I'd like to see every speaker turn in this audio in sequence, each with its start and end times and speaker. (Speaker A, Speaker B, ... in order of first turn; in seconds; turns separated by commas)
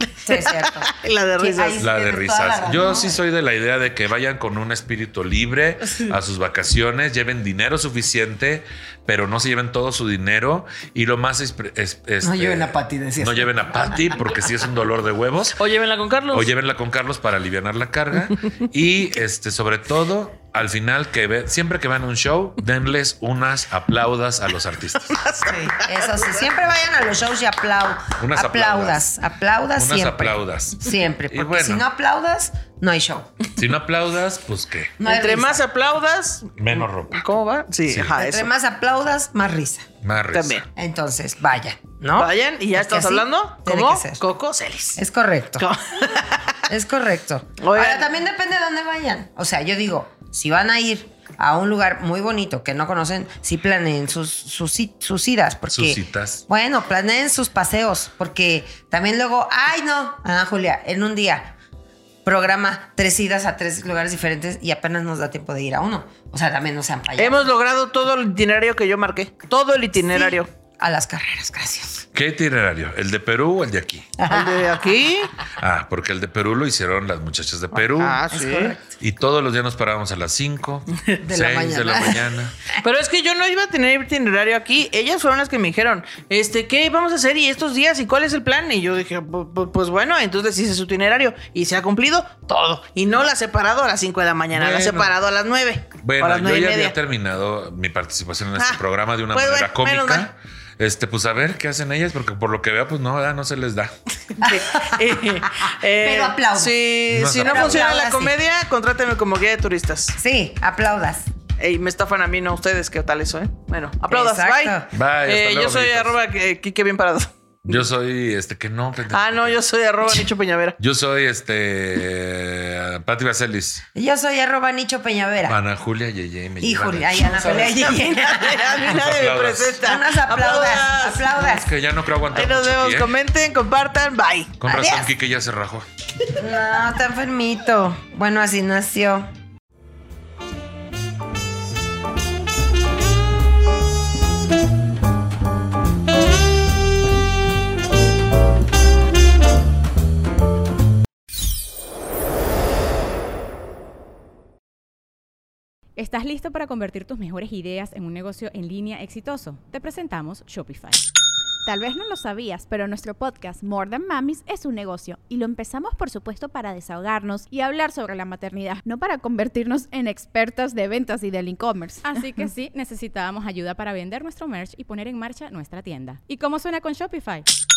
Speaker A: 0.2-3.2, Speaker B: 0.4-1.8, Speaker C: 1.8-15.6, Speaker A: 12.2-14.3, Speaker B: 15.6-16.5, Speaker C: 16.3-25.2, Speaker B: 25.1-26.4, Speaker A: 25.5-33.3, Speaker C: 28.2-29.0, Speaker C: 29.8-31.9, Speaker C: 33.6-35.0, Speaker A: 35.0-35.6, Speaker B: 35.0-38.5, Speaker C: 36.6-37.2, Speaker C: 37.9-38.1, Speaker A: 38.1-39.9, Speaker C: 40.0-40.6, Speaker B: 40.3-40.7, Speaker A: 40.8-44.2, Speaker B: 42.2-45.0, Speaker A: 45.0-45.7, Speaker B: 45.6-46.6, Speaker A: 46.7-61.6, Speaker B: 47.6-48.1, Speaker C: 55.7-56.4, Speaker A: 62.2-67.5, Speaker B: 67.2-70.5, Speaker A: 70.1-72.0, Speaker C: 72.1-74.1, Speaker A: 74.2-75.0, Speaker B: 74.3-75.3, Speaker C: 75.6-78.3, Speaker B: 78.0-78.8, Speaker A: 78.3-78.9, Speaker C: 79.0-82.5, Speaker A: 81.2-82.8, Speaker B: 82.8-97.0, Speaker C: 94.5-95.1, Speaker C: 96.0-103.9, Speaker B: 99.3-100.3, Speaker A: 104.4-106.9, Speaker B: 104.4-110.2, Speaker C: 107.1-107.9, Speaker A: 107.4-108.4, Speaker A: 110.2-111.3, Speaker B: 111.6-117.7, Speaker A: 114.1-114.9, Speaker C: 114.9-116.2, Speaker C: 117.7-119.6, Speaker B: 119.1-120.8, Speaker C: 120.8-123.8, Speaker A: 124.0-125.6, Speaker C: 125.5-127.9, Speaker A: 126.6-128.9, Speaker B: 127.6-131.2, Speaker C: 128.8-129.8, Speaker A: 129.8-131.7, Speaker C: 131.3-133.1, Speaker B: 132.3-134.5, Speaker C: 134.6-135.9, Speaker A: 134.7-135.1, Speaker A: 136.3-139.3, Speaker D: 156.0-161.0, Speaker E: 161.7-172.2, Speaker D: 172.0-177.5